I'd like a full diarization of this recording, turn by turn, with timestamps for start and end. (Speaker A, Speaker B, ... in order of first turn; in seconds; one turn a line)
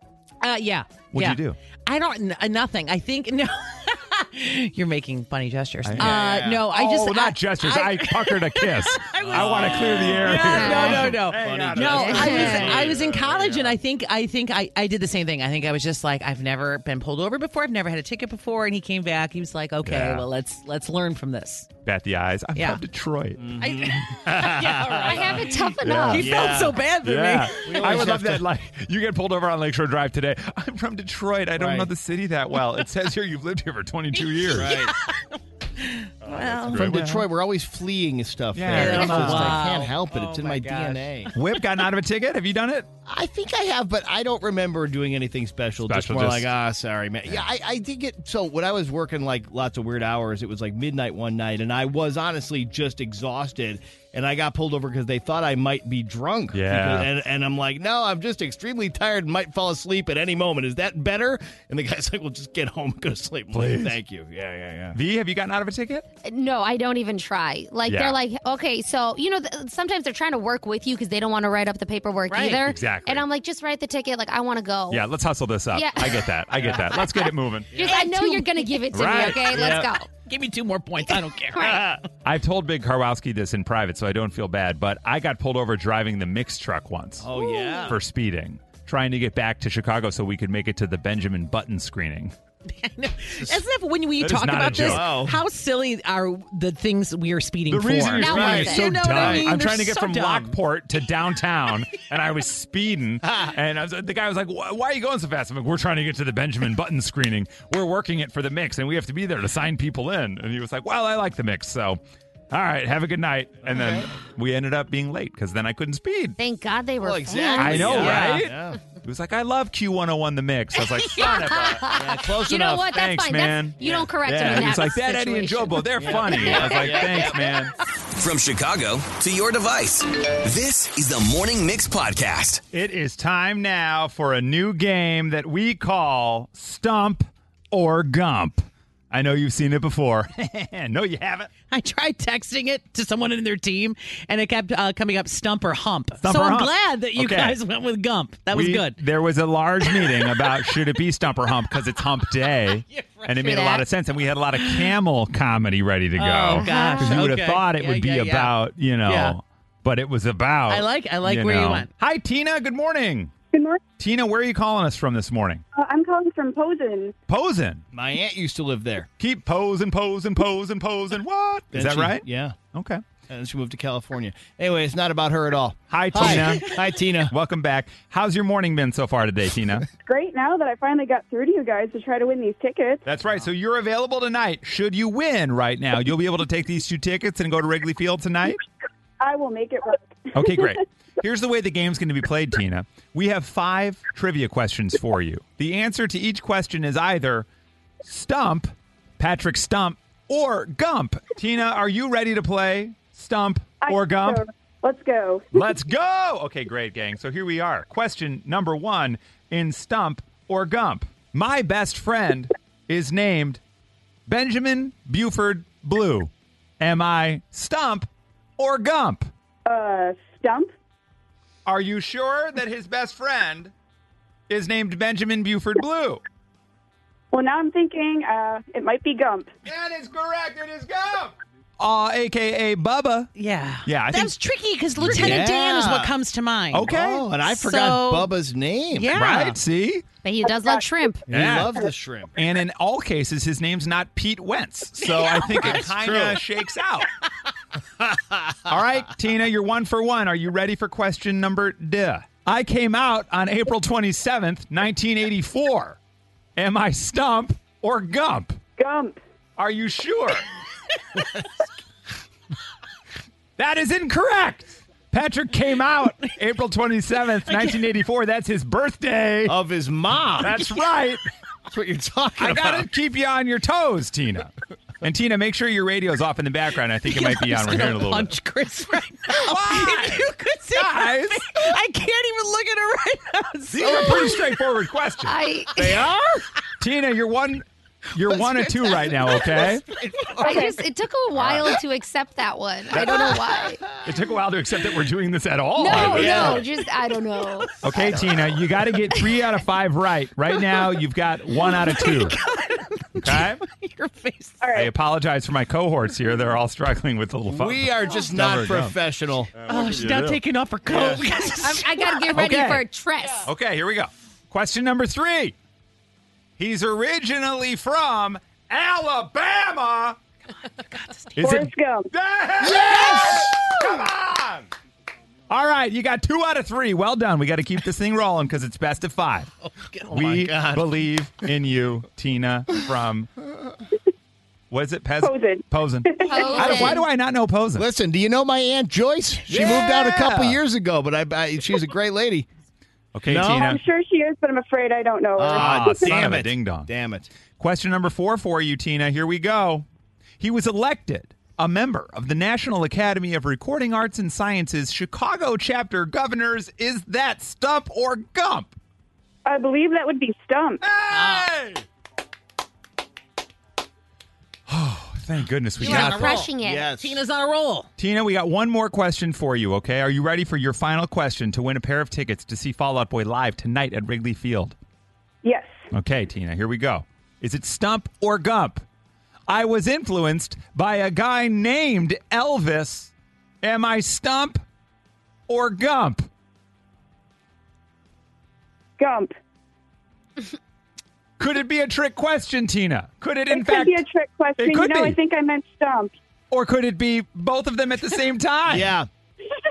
Speaker A: 0.4-21.7
Speaker B: 1.1-1.6
Speaker B: 5.8-13.7
Speaker C: 6.0-6.7
Speaker C: 9.1-13.6
Speaker D: 10.4-11.2
Speaker D: 12.1-12.7
Speaker B: 19.8-20.2
Speaker B: 21.9-23.5
Speaker A: 22.6-22.8
Speaker C: 23.4-25.5
Speaker A: 23.6-28.1
Speaker D: 25.0-26.5
Speaker B: 25.8-26.4
Speaker C: 26.1-26.8
Speaker B: 27.0-34.8
Speaker C: 27.6-28.5
Speaker C: 31.6-31.9
Speaker A: 34.2-36.8
Speaker C: 34.5-34.9
Speaker B: 36.2-37.3
Speaker C: 36.7-41.3
Speaker B: 38.5-39.6
Speaker A: 38.7-41.3
Speaker B: 41.3-42.9
Speaker C: 43.1-65.0
Speaker B: 45.8-46.5
Speaker B: 56.5-57.1
Speaker B: 63.5-64.0
Speaker B: 64.9-66.1
Speaker D: 66.2-75.1
Speaker B: 67.9-68.2
Speaker A: 72.3-72.6
Speaker B: 72.6-73.2
Speaker B: 74.9-77.7
Speaker D: 75.7-80.1
Speaker C: 76.6-76.8
Speaker C: 77.7-78.0
Speaker A: 77.8-78.8
Speaker B: 78.9-79.6
Speaker C: 79.5-79.9
Speaker A: 80.2-82.0
Speaker D: 81.6-81.8
Speaker C: 81.6-82.0
Speaker B: 82.2-87.3
Speaker C: 87.2-88.0
Speaker D: 87.5-87.8
Speaker B: 87.9-92.3
Speaker A: 92.7-100.6
Speaker B: 94.2-95.1
Speaker C: 94.7-95.4
Speaker B: 97.7-112.0
Speaker D: 98.2-99.0
Speaker C: 98.2-99.5
Speaker B: 112.5-116.4
Speaker C: 113.6-114.1
Speaker D: 116.4-118.2
Speaker C: 117.0-118.8
Speaker B: 117.6-122.0
Speaker A: 118.0-118.4
Speaker D: 121.2-127.0
Speaker C: 121.9-123.0
Speaker B: 122.9-127.8
Speaker C: 123.8-124.7
Speaker C: 125.9-127.4
Speaker E: 128.2-132.6
Speaker B: 132.7-141.5
Speaker A: 141.7-149.0
Speaker B: 146.2-147.6
Speaker B: 148.5-163.3
Speaker A: 149.8-150.7
Speaker A: 152.9-153.5
Speaker D: 153.4-153.8
Speaker A: 154.6-154.9
Speaker A: 156.2-159.4
Speaker D: 156.6-157.2
Speaker A: 160.7-161.9
Speaker F: 163.5-163.8
Speaker B: 164.0-165.6
Speaker F: 165.8-167.1
Speaker B: 167.3-167.8
Speaker C: 167.9-169.1
Speaker B: 169.2-173.0
Speaker C: 171.7-172.6
Speaker C: 173.3-177.3
Speaker B: 175.9-179.9
Speaker F: 180.0-183.0
Speaker B: 183.1-188.6
Speaker F: 189.2-190.7
Speaker B: 190.3-197.4
Speaker B: 198.1-204.4
Speaker F: 203.8-205.4
Speaker B: 205.5-213.6
Speaker B: 214.3-219.3
Speaker F: 219.7-220.7
Speaker B: 221.7-223.7
Speaker B: 224.5-226.2
Speaker F: 227.3-229.5
Speaker B: 229.6-233.3
Speaker A: 233.4-236.9
Speaker B: 233.8-234.3
Speaker B: 235.0-235.4
Speaker C: 235.0-236.1
Speaker B: 236.7-237.3
Speaker C: 236.8-239.1
Speaker A: 237.4-238.3
Speaker A: 238.9-239.6
Speaker B: 239.1-240.1
Speaker D: 240.2-241.3
Speaker C: 241.3-242.3
Speaker B: 241.3-241.7
Speaker B: 242.4-247.1
Speaker A: 245.1-245.8
Speaker C: 245.6-246.4
Speaker C: 248.0-248.6
Speaker B: 248.7-256.0
Speaker B: 256.6-258.6
Speaker F: 258.8-259.2
Speaker B: 259.6-260.5
Speaker B: 263.6-269.6
Speaker A: 267.5-267.8
Speaker C: 269.4-270.6
Speaker B: 270.4-271.2
Speaker C: 271.7-272.9
Speaker B: 272.4-278.3
Speaker A: 277.1-284.4
Speaker B: 279.4-281.6
Speaker B: 283.7-285.4
Speaker D: 285.2-286.0
Speaker C: 285.8-286.3
Speaker B: 286.8-289.9
Speaker C: 288.6-290.7
Speaker D: 290.4-293.8
Speaker B: 291.4-291.7
Speaker B: 292.9-293.4
Speaker C: 293.0-294.0
Speaker B: 294.0-296.6
Speaker D: 295.8-297.7
Speaker C: 295.9-296.7
Speaker B: 297.8-302.4
Speaker C: 298.1-298.4
Speaker A: 301.7-304.6
Speaker B: 303.2-303.6
Speaker F: 304.6-304.9
Speaker B: 304.7-308.9
Speaker C: 307.5-309.5
Speaker B: 309.6-310.4
Speaker A: 309.7-312.3
Speaker B: 310.9-311.2
Speaker D: 311.6-313.5
Speaker B: 312.3-312.9
Speaker B: 313.4-315.6
Speaker B: 316.6-320.2
Speaker A: 320.9-321.3
Speaker B: 321.4-324.7
Speaker F: 321.4-322.1
Speaker C: 322.6-323.7
Speaker B: 325.5-329.5
Speaker A: 329.6-330.2
Speaker B: 330.1-333.3
Speaker C: 330.1-330.9
Speaker B: 334.7-337.9
Speaker F: 335.2-336.9
Speaker D: 336.2-337.0
Speaker C: 337.8-342.5
Speaker B: 339.5-340.6
Speaker B: 343.1-343.8
Speaker C: 343.2-343.7
Speaker F: 343.5-346.2
Speaker C: 345.4-347.3
Speaker B: 345.4-346.9
Speaker B: 347.6-349.9
Speaker B: 350.4-358.8
Speaker F: 359.4-360.8
Speaker B: 360.8-361.8
Speaker A: 361.1-361.5
Speaker B: 364.7-366.4
Speaker D: 365.8-366.9
Speaker A: 365.8-367.9
Speaker C: 366.6-367.2
Speaker B: 368.0-374.8
Speaker F: 375.4-375.8
Speaker B: 375.9-378.8
Speaker B: 379.5-383.1
Speaker B: 383.6-384.6
Speaker B: 385.5-386.3
Speaker F: 389.0-389.3
Speaker B: 391.4-394.0
Speaker F: 393.5-396.1
Speaker B: 394.6-395.2
Speaker B: 396.5-398.9
Speaker C: 398.7-399.1